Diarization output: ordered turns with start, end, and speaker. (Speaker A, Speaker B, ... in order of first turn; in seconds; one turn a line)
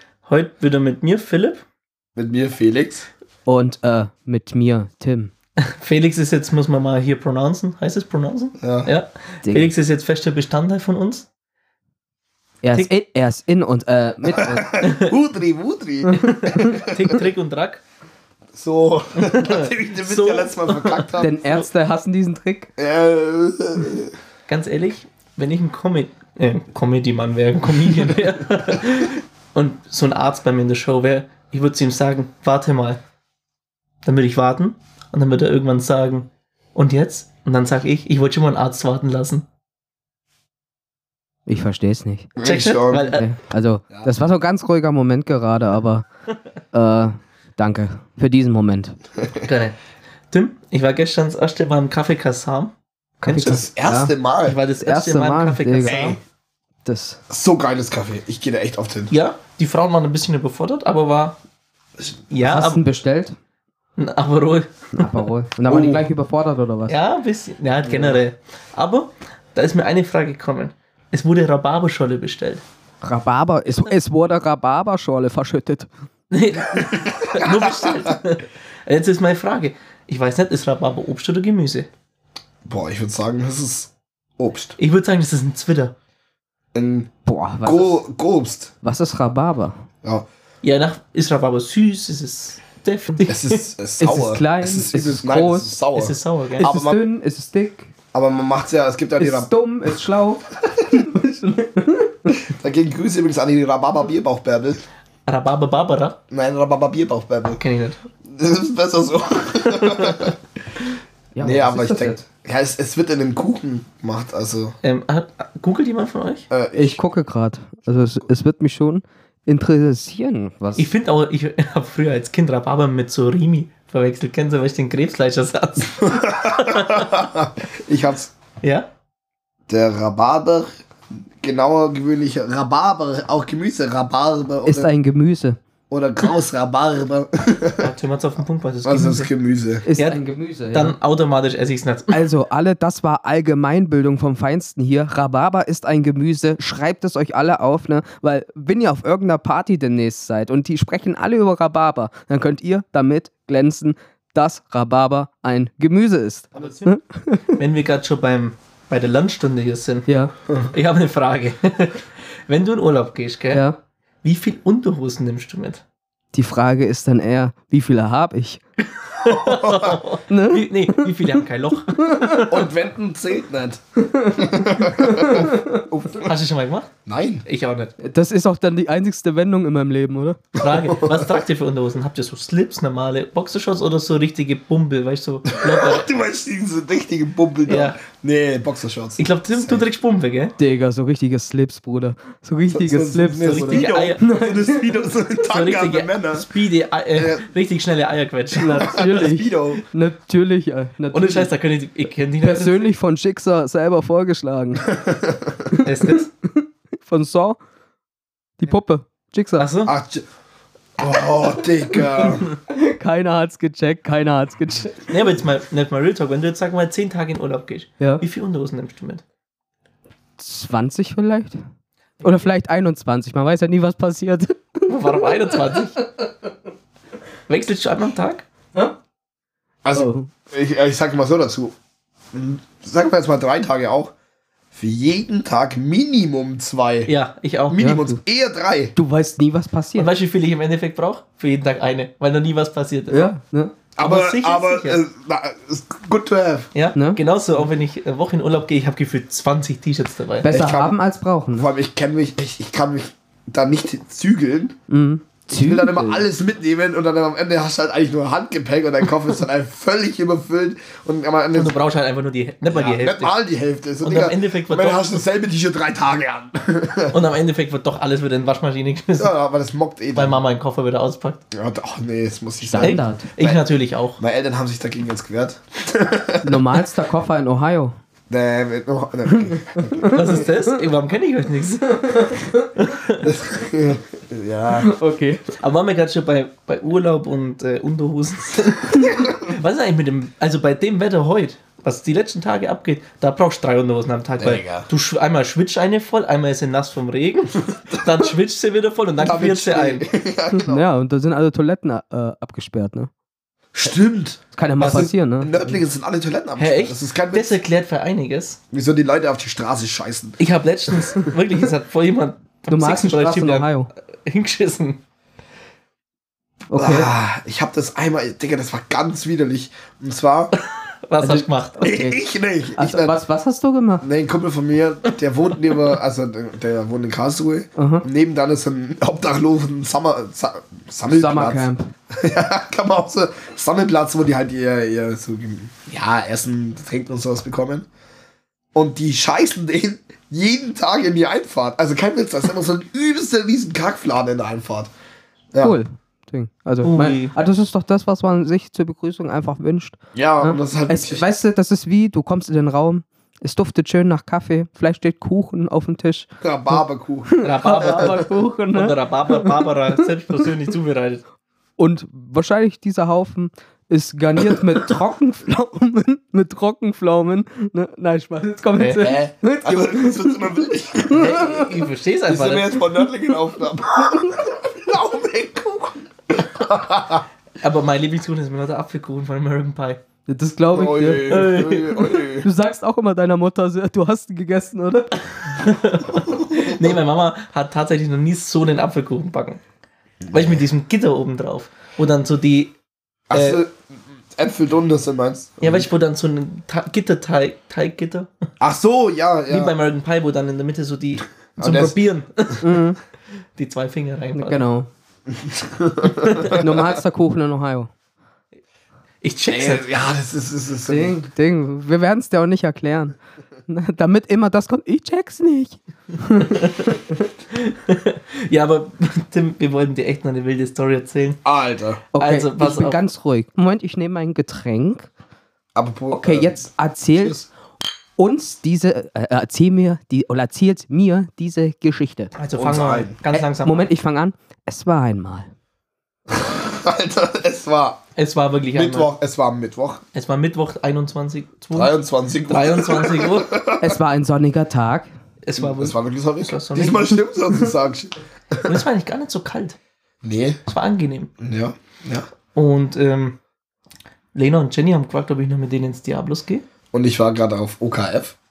Speaker A: 0.2-1.6
Speaker B: 2.2-3.1
Speaker C: 3.5-5.3
Speaker A: 5.7-11.3
Speaker B: 8.6-8.9
Speaker C: 12.6-14.7
Speaker B: 14.3-17.2
Speaker A: 14.8-15.1
Speaker C: 16.1-16.6
Speaker A: 16.1-17.8
Speaker B: 18.5-21.3
Speaker A: 19.2-21.6
Speaker C: 21.2-22.7
Speaker B: 22.8-24.1
Speaker A: 24.5-33.0
Speaker A: 34.0-39.5
Speaker C: 41.5-42.4
Speaker B: 42.4-43.1
Speaker A: 42.4-43.3
Speaker C: 43.0-46.1
Speaker C: 46.7-49.0
Speaker A: 49.4-49.8
Speaker A: 50.3-53.6
Speaker C: 53.2-54.1
Speaker B: 53.4-54.7
Speaker A: 54.5-56.2
Speaker C: 54.8-56.0
Speaker B: 55.9-56.2
Speaker C: 56.9-57.2
Speaker B: 57.3-59.1
Speaker A: 59.1-61.4
Speaker A: 62.3-62.8
Speaker C: 62.4-63.4
Speaker A: 64.0-66.0
Speaker C: 65.0-67.0
Speaker A: 66.9-72.6
Speaker C: 73.0-75.9
Speaker A: 73.7-73.9
Speaker A: 76.3-81.9
Speaker B: 76.8-78.2
Speaker B: 82.7-84.8
Speaker A: 84.8-86.0
Speaker B: 86.7-88.8
Speaker C: 87.2-88.0
Speaker C: 88.8-89.8
Speaker A: 90.6-93.7
Speaker B: 93.2-97.1
Speaker C: 94.0-95.8
Speaker A: 95.9-96.7
Speaker C: 96.6-97.9
Speaker B: 98.1-99.5
Speaker C: 99.2-102.4
Speaker B: 102.4-104.8
Speaker A: 105.3-106.2
Speaker B: 106.3-107.6
Speaker A: 107.5-108.0
Speaker B: 108.3-110.3
Speaker A: 109.7-110.3
Speaker C: 111.4-112.2
Speaker B: 111.4-114.8
Speaker A: 114.8-116.5
Speaker B: 116.5-117.0
Speaker C: 116.7-120.9
Speaker A: 120.8-127.2
Speaker B: 126.0-128.3
Speaker A: 128.6-128.9
Speaker B: 129.7-130.7
Speaker B: 131.4-134.9
Speaker C: 134.7-135.6
Speaker B: 135.9-137.9
Speaker A: 137.8-139.3
Speaker B: 138.8-139.9
Speaker C: 139.8-141.0
Speaker A: 139.9-142.3
Speaker C: 142.1-157.6
Speaker B: 156.6-156.8
Speaker A: 156.6-156.8
Speaker A: 157.5-163.7
Speaker C: 160.1-160.3
Speaker A: 164.2-165.8
Speaker C: 166.3-168.6
Speaker A: 168.9-172.7
Speaker B: 169.4-170.0
Speaker C: 170.3-171.4
Speaker C: 172.0-172.4
Speaker B: 172.5-176.3
Speaker C: 174.0-175.8
Speaker A: 176.1-176.9
Speaker B: 177.1-177.4
Speaker A: 177.5-177.9
Speaker C: 178.0-180.5
Speaker B: 180.6-181.3
Speaker A: 180.6-186.1
Speaker B: 185.5-189.9
Speaker A: 187.7-188.0
Speaker A: 189.2-190.6
Speaker C: 190.6-195.0
Speaker B: 192.7-196.5
Speaker A: 193.4-194.7
Speaker A: 195.4-199.3
Speaker B: 197.2-197.5
Speaker B: 198.6-199.8
Speaker C: 198.6-201.5
Speaker A: 201.1-202.9
Speaker C: 202.4-204.9
Speaker B: 204.8-205.7
Speaker C: 205.7-207.6
Speaker A: 205.8-206.3
Speaker C: 208.6-209.7
Speaker A: 209.6-209.9
Speaker B: 209.8-210.2
Speaker B: 211.0-212.5
Speaker C: 212.7-215.0
Speaker A: 215.0-219.2
Speaker C: 220.4-221.6
Speaker C: 222.2-225.8
Speaker A: 224.9-226.0
Speaker A: 227.5-228.5
Speaker B: 229.8-231.7
Speaker C: 229.9-230.3
Speaker B: 232.3-234.1
Speaker B: 234.7-237.1
Speaker A: 237.1-237.8
Speaker B: 237.7-238.9
Speaker C: 237.7-238.2
Speaker C: 238.9-240.1
Speaker A: 239.9-243.3
Speaker C: 243.1-243.9
Speaker B: 243.9-246.8
Speaker A: 244.0-245.1
Speaker A: 246.7-250.5
Speaker C: 246.9-247.2
Speaker C: 250.4-251.7
Speaker B: 250.5-250.9
Speaker B: 251.5-254.8
Speaker C: 254.9-256.3
Speaker B: 255.4-261.8
Speaker A: 261.5-263.4
Speaker B: 262.7-267.2
Speaker A: 264.0-265.2
Speaker A: 267.1-269.3
Speaker B: 269.2-270.4
Speaker A: 270.1-271.4
Speaker B: 271.5-273.6
Speaker C: 272.6-273.2
Speaker A: 272.8-274.2
Speaker B: 274.2-276.9
Speaker C: 276.4-277.9
Speaker B: 278.3-280.4
Speaker C: 279.8-280.3
Speaker A: 280.0-283.3
Speaker B: 283.2-284.9
Speaker C: 284.7-285.4
Speaker A: 285.5-300.1
Speaker B: 294.4-294.9
Speaker B: 299.2-300.8
Speaker C: 300.5-303.1
Speaker B: 303.8-307.6
Speaker C: 304.5-305.8
Speaker A: 304.8-305.1
Speaker A: 306.6-308.6
Speaker B: 308.7-310.4
Speaker A: 310.4-315.0
Speaker C: 312.7-313.9
Speaker C: 316.7-317.1
Speaker B: 316.8-320.5
Speaker A: 320.6-321.9
Speaker C: 321.2-324.0
Speaker B: 321.8-323.2
Speaker B: 324.0-337.9
Speaker C: 327.8-328.1
Speaker C: 331.1-331.9
Speaker B: 338.7-344.9
Speaker C: 345.6-359.7
Speaker A: 346.8-347.4
Speaker B: 350.1-351.3
Speaker B: 356.4-357.3
Speaker A: 357.4-361.2
Speaker B: 357.8-358.2
Speaker C: 361.8-371.8
Speaker B: 364.5-364.9
Speaker A: 368.8-369.1
Speaker B: 369.0-371.4
Speaker A: 371.1-372.8
Speaker B: 372.3-377.3
Speaker C: 373.0-373.4
Speaker A: 377.6-380.0
Speaker C: 380.3-385.3
Speaker B: 380.7-382.5
Speaker A: 381.3-382.2
Speaker A: 385.5-389.6
Speaker B: 390.2-390.6
Speaker A: 390.3-392.7
Speaker B: 393.3-395.9
Speaker A: 393.3-393.6
Speaker A: 395.6-398.3
Speaker B: 398.6-399.8
Speaker A: 399.5-402.9
Speaker B: 401.6-402.0
Speaker C: 402.6-403.0
Speaker A: 403.6-404.7
Speaker C: 404.4-404.9
Speaker B: 405.3-406.9
Speaker A: 406.1-406.7
Speaker C: 406.5-407.9
Speaker A: 409.2-409.9
Speaker B: 409.5-411.2
Speaker C: 410.9-416.9
Speaker A: 416.4-421.4
Speaker B: 421.4-422.1
Speaker C: 422.1-425.1
Speaker A: 422.2-423.0
Speaker B: 425.8-427.5
Speaker C: 426.1-427.4
Speaker C: 428.2-432.4
Speaker A: 432.4-433.9
Speaker B: 432.5-433.2
Speaker C: 433.3-435.5
Speaker B: 436.3-438.0
Speaker A: 438.2-439.1
Speaker B: 438.7-440.0
Speaker A: 440.1-442.0
Speaker B: 441.7-444.0
Speaker A: 442.5-443.6
Speaker C: 443.8-445.1
Speaker A: 445.4-447.2
Speaker B: 445.6-448.8
Speaker A: 448.6-449.8
Speaker B: 450.2-450.6
Speaker A: 450.7-451.3
Speaker B: 451.4-452.3
Speaker A: 452.5-453.4
Speaker A: 454.3-456.6
Speaker B: 456.9-458.4